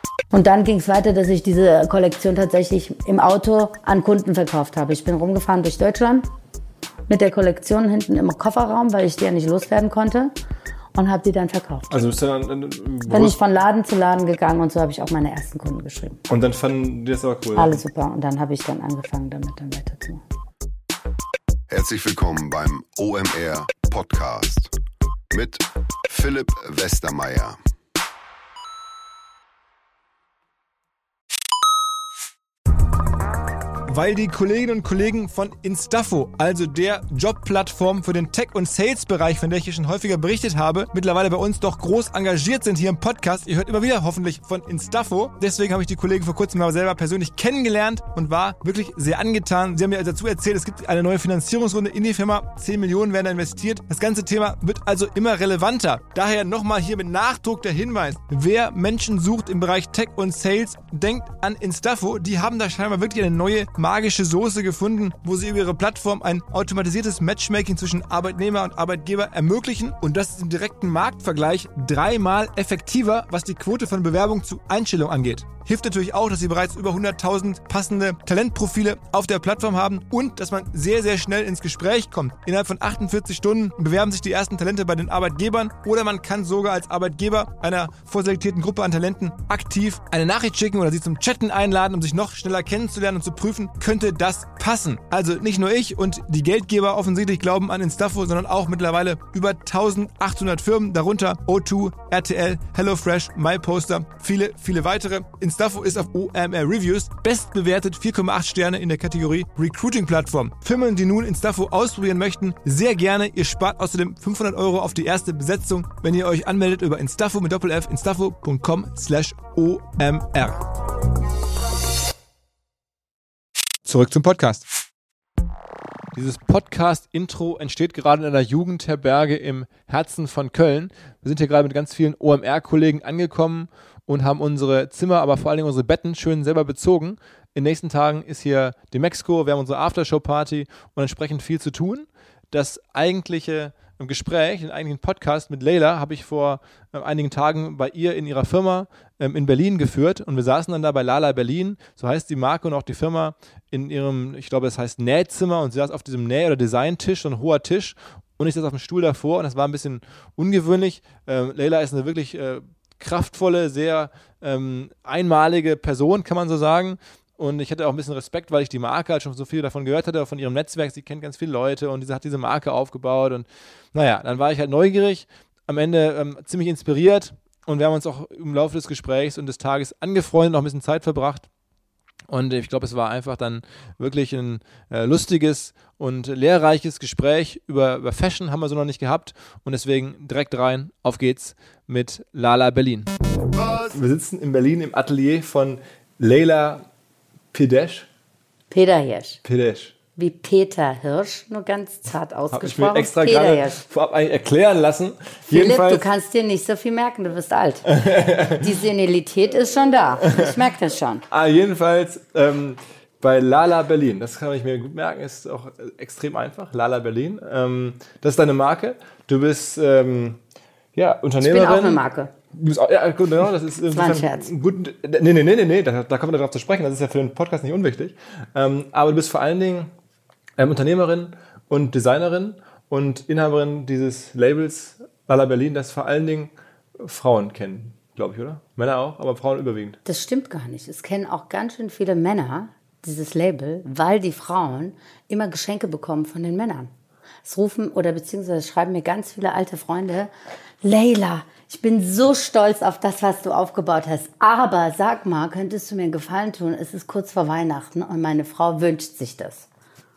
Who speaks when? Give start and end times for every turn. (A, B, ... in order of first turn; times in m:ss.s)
0:00.3-0:06.3 A
0:07.1-0:10.3 A
0:11.0-0:12.0 A
0:11.9-0:13.4 B
0:13.1-0:16.2 A
0:16.3-0:17.8 B
0:17.6-0:20.2 A
0:21.7-0:24.7 C
0:25.3-0:27.6 C
0:33.9-2:00.6 B
2:03.8-2:04.7 B
2:06.2-3:01.5 B
3:02.3-3:13.1 B
3:13.6-3:16.9 B
3:17.5-3:18.1 B
3:18.7-3:19.4 A
3:19.4-3:20.0 B
3:20.2-3:23.8 A
3:22.5-3:26.0 B
3:25.5-3:31.3 A
3:27.9-3:28.6 B
3:31.3-3:40.4 B
3:41.0-3:42.0 B
3:41.4-3:42.3 A
3:42.5-3:49.9 B
3:43.9-3:44.5 A
3:50.6-4:00.0 B
4:00.0-4:06.9 A
4:07.4-4:10.3 A
4:10.8-4:19.7 A